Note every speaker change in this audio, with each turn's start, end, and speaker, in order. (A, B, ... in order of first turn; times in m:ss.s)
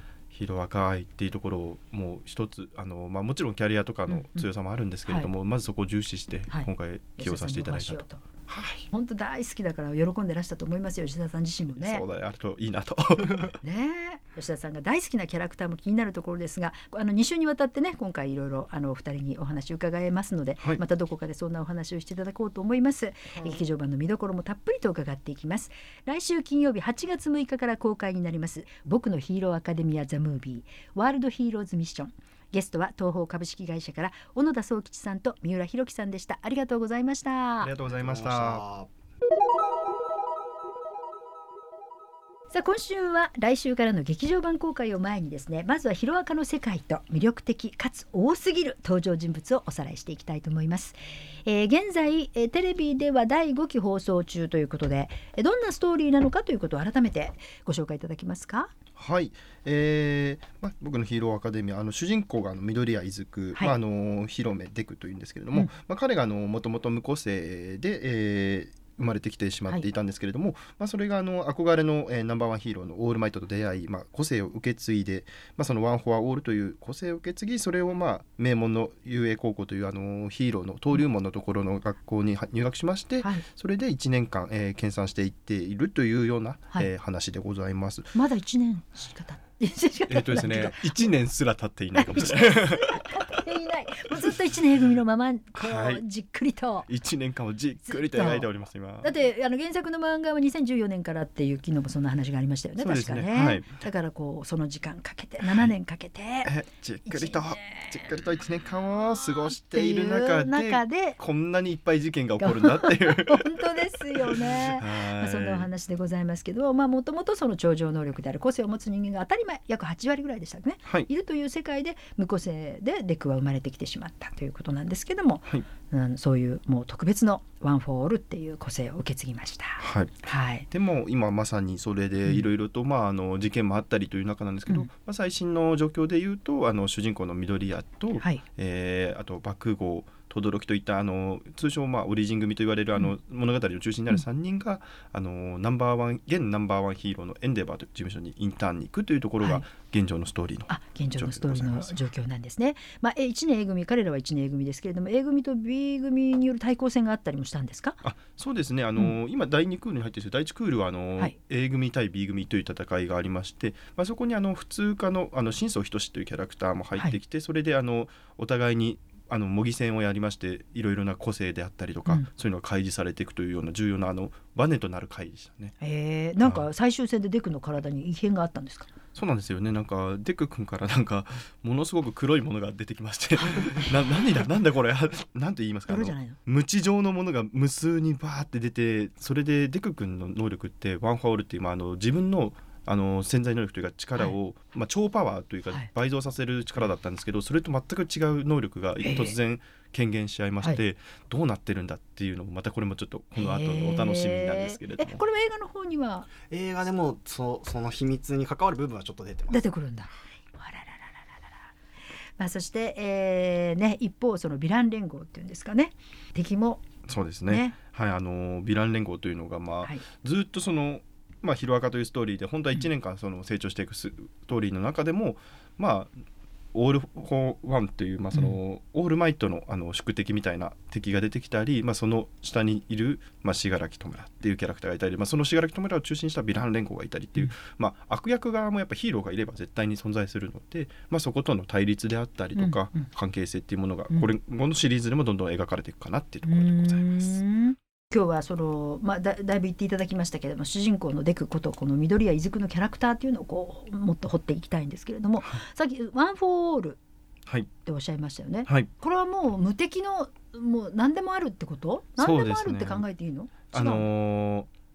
0:00.3-0:08.9 A
0:04.1-0:04.5 B
0:06.5-0:08.2 B
0:08.9-0:12.0 B
0:11.7-0:13.6 A
0:13.6-0:37.7 B
0:37.6-0:38.6 A
0:37.9-0:38.9 C
0:42.5-0:58.7 B
0:59.0-1:28.1 A
1:28.1-1:31.1 B
1:30.1-1:33.1 A
1:31.9-1:36.9 B
1:35.5-1:36.0 A
1:36.9-1:39.1 A
1:37.9-1:38.5 B
1:39.0-1:46.5 B
1:42.8-1:43.8 A
1:46.4-1:55.7 A
1:47.0-1:48.2 B
1:49.3-1:51.2 B
1:52.4-2:10.7 B
2:09.8-2:32.1 A
2:30.7-2:38.0 B
2:38.0-2:55.7 A
2:55.8-2:58.9 B
2:59.1-3:25.2 A
3:03.4-3:03.9 B
3:05.9-3:06.4 B
3:19.0-3:19.3 B
3:23.4-3:26.3 B
3:26.4-3:29.6 C
3:29.5-3:31.5 B
3:32.4-3:36.8 B
3:37.0-3:46.1 A
3:37.5-3:37.7 B
3:46.7-4:07.4 A
4:02.6-4:03.1 B
4:06.4-4:17.0 B
4:17.8-4:24.1 B
4:22.2-4:23.0 A
4:23.7-4:24.7 A